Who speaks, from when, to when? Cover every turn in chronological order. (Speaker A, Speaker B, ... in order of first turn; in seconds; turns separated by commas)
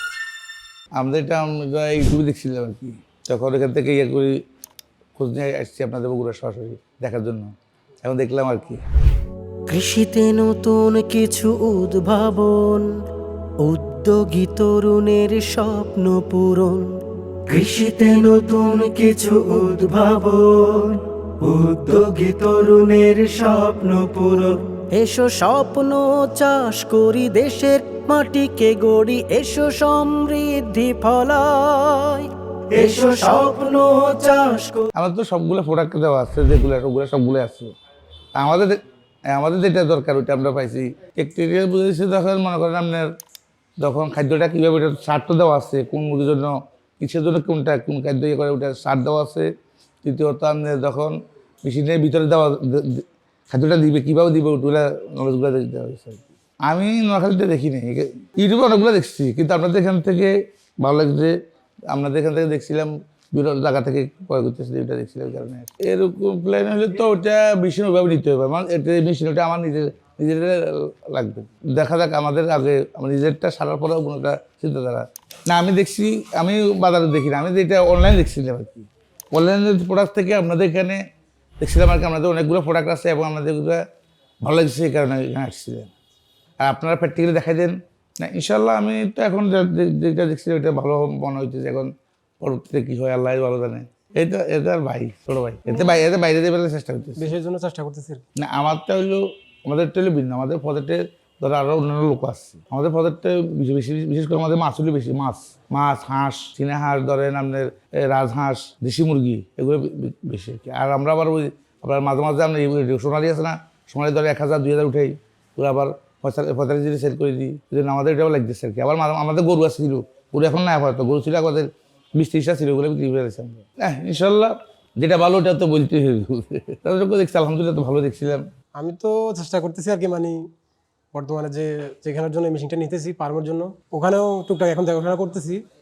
Speaker A: 1.0-4.4, Speaker A: 5.2-8.8, Speaker B: 9.7-12.9, Speaker B: 13.6-16.9, Speaker B: 17.5-34.9, Speaker A: 34.9-37.7, Speaker A: 38.4-38.8, Speaker A: 39.3-43.1, Speaker A: 43.8-49.5, Speaker A: 50.0-61.4, Speaker A: 61.9-81.0, Speaker A: 81.6-83.8, Speaker A: 84.4-85.9, Speaker A: 86.6-97.3, Speaker C: 97.2-98.2, Speaker A: 98.4-128.5, Speaker C: 128.8-130.4, Speaker C: 131.1-135.6